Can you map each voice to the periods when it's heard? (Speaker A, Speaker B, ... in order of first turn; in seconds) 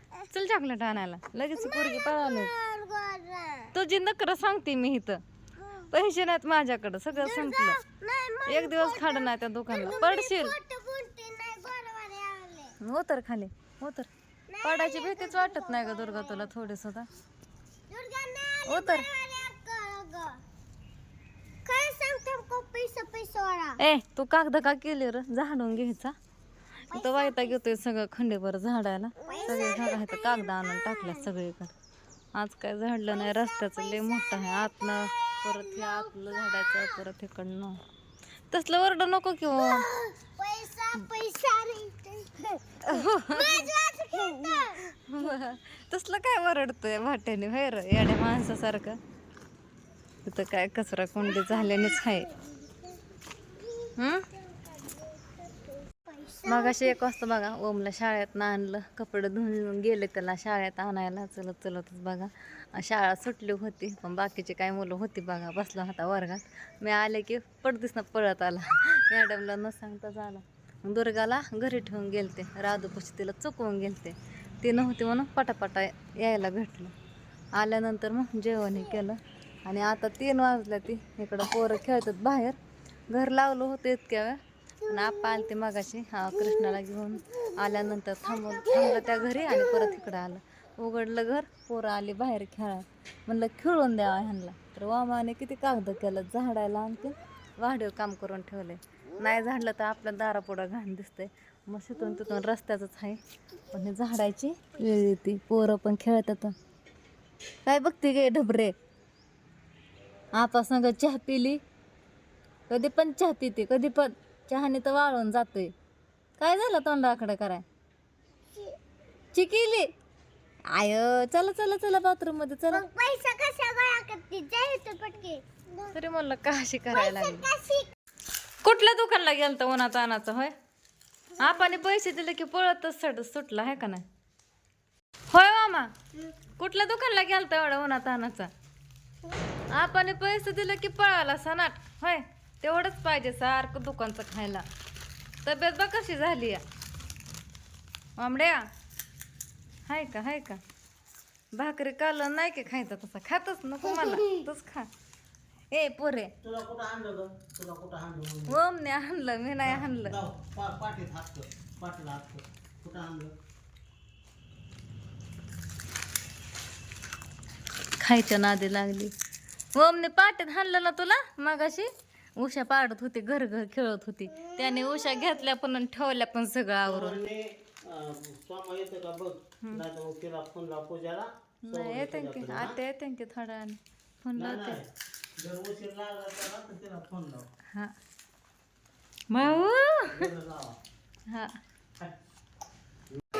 Speaker A: 0.3-2.5, 3.7-5.2, 5.8-7.8, 8.4-10.6, 12.8-14.1, 14.6-17.1, 18.6-19.1, 23.8-26.1, 26.9-31.7, 32.3-37.8, 38.5-39.9, 42.8-43.7, 44.8-49.0, 50.2-52.3, 54.0-54.3, 56.4-76.9, 77.5-82.6, 83.1-106.5, 107.6-108.7, 110.3-111.6, 112.7-115.7, 116.4-117.6, 119.3-119.9, 120.7-122.9, 125.9-127.5, 128.6-130.5, 131.4-134.0, 135.3-135.9, 136.6-138.5, 139.7-144.6, 145.4-146.6, 148.2-148.6, 149.9-150.6, 151.6-154.9, 155.7-156.3, 158.5-160.2, 168.0-169.1, 169.7-177.2, 181.6-184.8, 189.3-190.3, 191.3-191.6
Speaker B: 1.5-3.7, 7.1-12.7, 14.5-16.5, 17.9-20.4, 21.6-23.8, 26.9-27.5, 29.3-30.9, 33.4-34.7, 39.6-45.0, 52.4-52.8, 54.7-56.9, 122.7-125.9, 126.9-127.9
Speaker C: 156.4-158.6, 159.6-163.3, 176.8-182.8, 184.3-187.5, 189.4-190.8